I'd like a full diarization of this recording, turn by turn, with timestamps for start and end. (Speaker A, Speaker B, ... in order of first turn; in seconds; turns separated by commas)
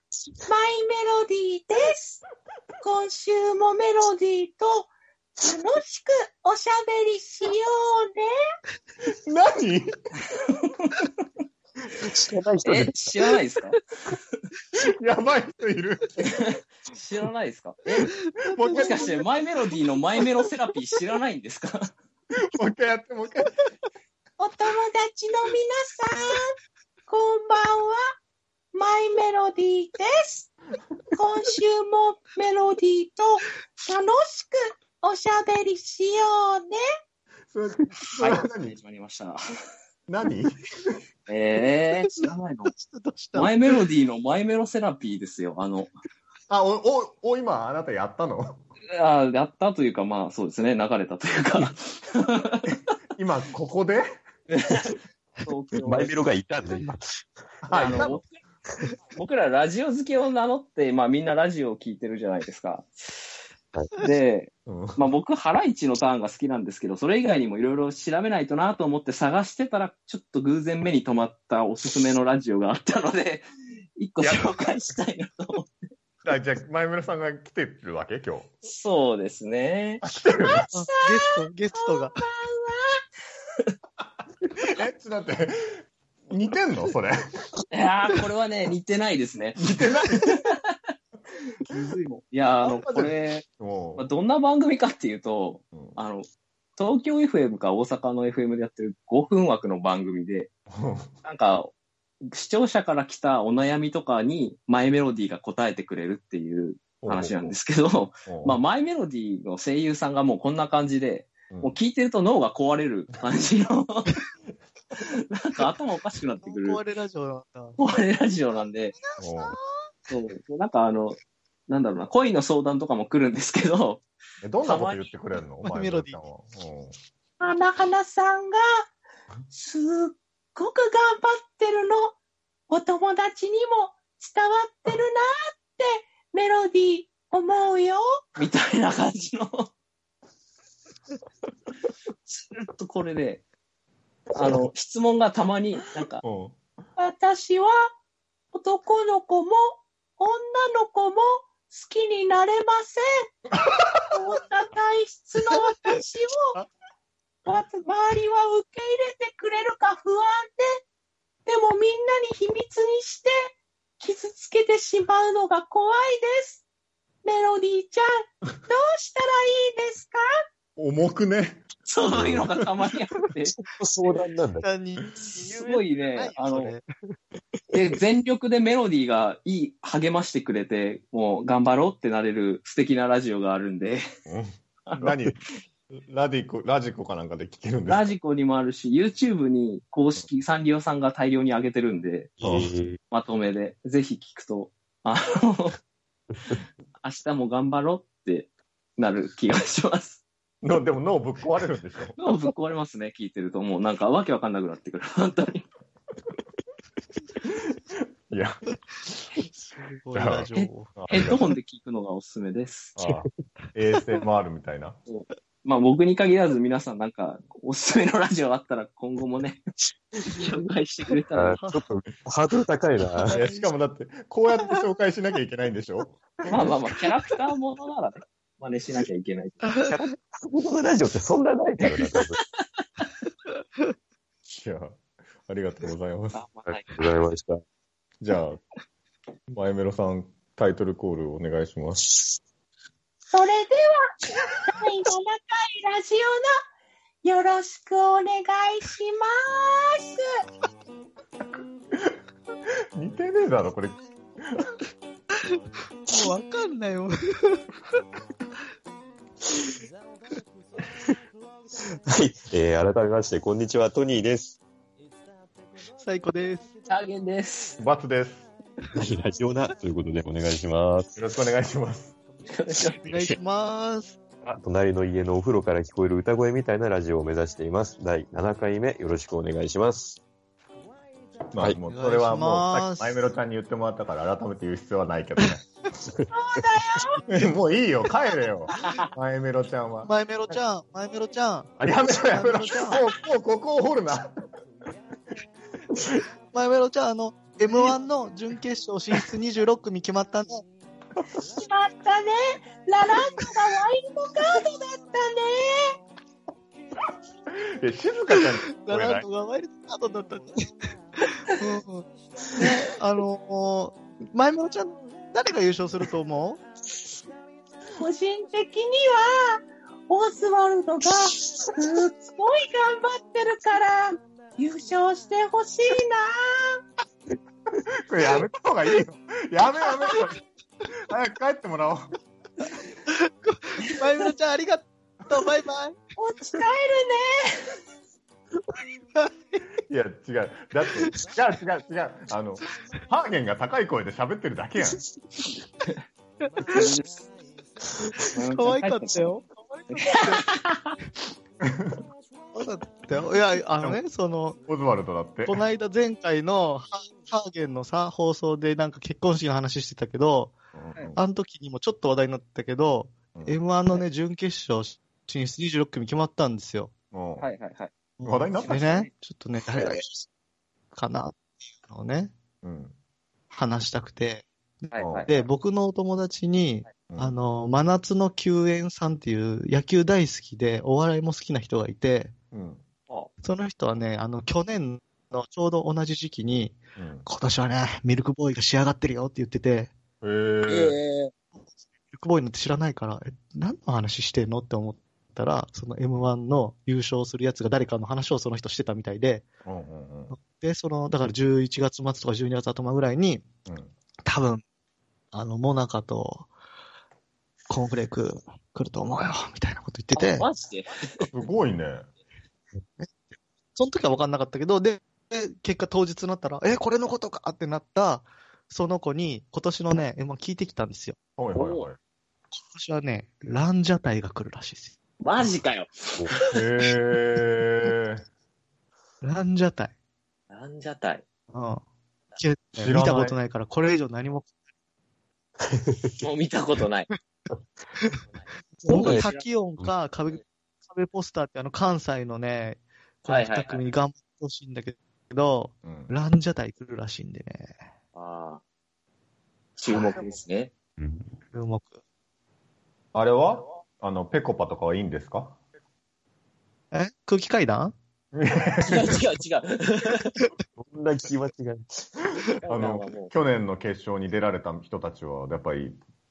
Speaker A: 0.4-2.2, Speaker A: 2.8-8.3, Speaker B: 9.1-9.9, Speaker C: 11.9-13.2, Speaker D: 12.6-13.8, Speaker B: 14.7-16.5, Speaker D: 16.2-18.2, Speaker E: 18.1-19.1, Speaker B: 18.5-19.2, Speaker D: 18.7-21.9, Speaker B: 22.4-23.5, Speaker A: 24.4-26.5, Speaker A: 27.1-28.0, Speaker A: 28.7-30.5, Speaker A: 31.1-36.8, Speaker B: 37.5-38.8, Speaker D: 38.1-39.5, Speaker B: 40.1-41.0, Speaker D: 41.3-42.7, Speaker E: 42.0-43.7, Speaker D: 43.3-45.9, Speaker B: 46.5-48.6, Speaker D: 48.9-52.7, Speaker B: 53.1-54.0, Speaker D: 54.5-56.1, Speaker C: 55.8-57.0, Speaker B: 57.6-58.2, Speaker D: 57.7-58.4, Speaker D: 59.1-63.1, Speaker D: 64.0-73.5, Speaker B: 64.7-65.0, Speaker D: 74.0-75.7, Speaker B: 74.2-74.7, Speaker B: 76.2-78.5, Speaker D: 78.6-80.0, Speaker B: 80.0-80.7, Speaker A: 80.4-83.0, Speaker E: 80.7-82.2, Speaker B: 84.5-87.2, Speaker D: 87.7-89.6, Speaker B: 89.6-90.4, Speaker D: 90.1-90.7, Speaker B: 91.7-91.9, Speaker D: 91.7-93.5, Speaker B: 92.6-94.1, Speaker D: 94.0-100.5, Speaker B: 100.7-101.1, Speaker D: 101.2-114.2, Speaker B: 107.0-107.5, Speaker B: 108.3-108.6, Speaker B: 111.5-111.8, Speaker D: 115.0-116.8, Speaker E: 116.4-117.8, Speaker D: 117.8-118.9, Speaker E: 118.9-119.9, Speaker B: 119.2-119.6, Speaker D: 120.1-124.0, Speaker B: 124.4-127.0, Speaker D: 124.6-125.1, Speaker E: 125.6-126.2, Speaker A: 127.4-128.6, Speaker A: 129.5-132.2, Speaker A: 132.7-138.0, Speaker D: 138.4-139.7, Speaker D: 142.3-143.4, Speaker D: 144.3-146.2, Speaker B: 146.2-146.6, Speaker A: 147.0-147.7, Speaker A: 148.5-153.1, Speaker B: 153.6-154.0, Speaker A: 154.1-156.6, Speaker A: 157.4-160.8, Speaker A: 161.4-166.6, Speaker A: 167.2-168.1, Speaker A: 168.7-170.2, Speaker B: 170.8-172.6, Speaker D: 171.8-173.6, Speaker C: 172.2-172.4, Speaker C: 173.6-174.7, Speaker E: 174.6-176.8, Speaker D: 175.3-176.7, Speaker D: 177.7-184.0, Speaker B: 184.3-188.1, Speaker D: 187.9-192.3, Speaker C: 192.4-193.0, Speaker B: 192.4-192.7, Speaker D: 193.1-195.8, Speaker D: 197.0-200.2, Speaker B: 200.6-202.2, Speaker D: 202.2-205.7, Speaker B: 207.4-209.3, Speaker E: 209.5-210.9, Speaker B: 210.1-211.4, Speaker D: 210.5-212.9, Speaker B: 212.9-215.0, Speaker D: 215.1-219.6, Speaker D: 220.3-221.6, Speaker C: 221.3-223.4, Speaker E: 221.6-221.8, Speaker E: 223.3-223.7, Speaker B: 223.3-226.3, Speaker D: 226.5-229.7, Speaker C: 229.8-232.4, Speaker D: 231.9-232.4, Speaker B: 234.5-236.4, Speaker D: 236.3-236.8, Speaker C: 236.7-237.6, Speaker B: 238.2-238.6, Speaker B: 239.5-242.2, Speaker A: 243.3-246.5, Speaker A: 247.2-250.2, Speaker B: 252.9-254.8, Speaker E: 256.1-257.6, Speaker C: 262.1-264.6, Speaker E: 266.0-266.7, Speaker D: 266.9-267.8, Speaker B: 267.8-268.4, Speaker C: 268.9-271.1, Speaker B: 271.1-272.1, Speaker D: 272.5-273.0, Speaker E: 273.0-274.2, Speaker C: 274.4-280.2, Speaker B: 281.5-285.6, Speaker E: 281.9-283.2, Speaker A: 286.3-287.2, Speaker B: 287.3-290.1, Speaker E: 290.0-293.0, Speaker B: 291.8-294.3, Speaker E: 296.5-300.6, Speaker A: 301.5-306.0, Speaker B: 307.6-309.2, Speaker E: 308.8-316.6, Speaker A: 318.0-326.8, Speaker B: 328.1-330.4, Speaker B: 330.9-332.1, Speaker E: 333.1-336.0, Speaker A: 336.2-337.8, Speaker E: 339.2-339.6, Speaker B: 339.9-345.0, Speaker E: 346.6-346.9, Speaker D: 346.7-347.2, Speaker D: 348.3-349.3, Speaker E: 348.5-350.4, Speaker D: 349.9-350.9, Speaker B: 351.6-352.0, Speaker E: 352.5-354.6, Speaker B: 354.7-355.6, Speaker E: 355.4-360.5, Speaker B: 360.7-361.2, Speaker E: 361.1-366.9, Speaker B: 367.1-367.5, Speaker D: 367.4-367.9, Speaker E: 368.2-370.3, Speaker B: 368.2-369.1, Speaker D: 369.7-370.0, Speaker E: 370.9-372.3, Speaker B: 372.6-372.9, Speaker E: 373.5-382.3, Speaker D: 374.9-375.4, Speaker B: 375.0-375.3, Speaker B: 377.1-377.4, Speaker B: 382.5-382.8, Speaker E: 383.4-389.9, Speaker B: 387.0-387.2, Speaker B: 390.2-391.0, Speaker D: 390.7-391.3, Speaker E: 392.1-399.5, Speaker B: 399.6-400.4, Speaker E: 400.3-403.5, Speaker B: 403.7-403.9, Speaker E: 404.2-404.6, Speaker E: 405.3-406.5, Speaker E: 407.7-410.5, Speaker D: 410.1-411.3, Speaker B: 411.3-412.1, Speaker E: 413.8-421.1, Speaker B: 421.4-422.0, Speaker D: 421.5-421.9, Speaker E: 422.6-424.9, Speaker D: 425.2-426.5, Speaker B: 426.4-428.2, Speaker E: 429.2-429.9, Speaker D: 430.5-431.2, Speaker E: 431.5-431.8, Speaker E: 432.4-434.5, Speaker B: 432.8-433.4, Speaker C: 435.6-436.2, Speaker D: 436.2-437.1, Speaker D: 438.3-439.4, Speaker E: 438.8-447.7, Speaker C: 438.9-439.9, Speaker D: 443.3-443.8, Speaker B: 445.8-446.1, Speaker D: 448.1-448.6, Speaker D: 449.8-450.7, Speaker C: 451.0-451.3, Speaker E: 451.5-451.9, Speaker B: 453.1-455.6, Speaker E: 456.9-457.9, Speaker B: 458.3-459.2, Speaker D: 458.9-460.4, Speaker C: 460.8-462.1, Speaker D: 462.6-463.3, Speaker B: 462.7-466.0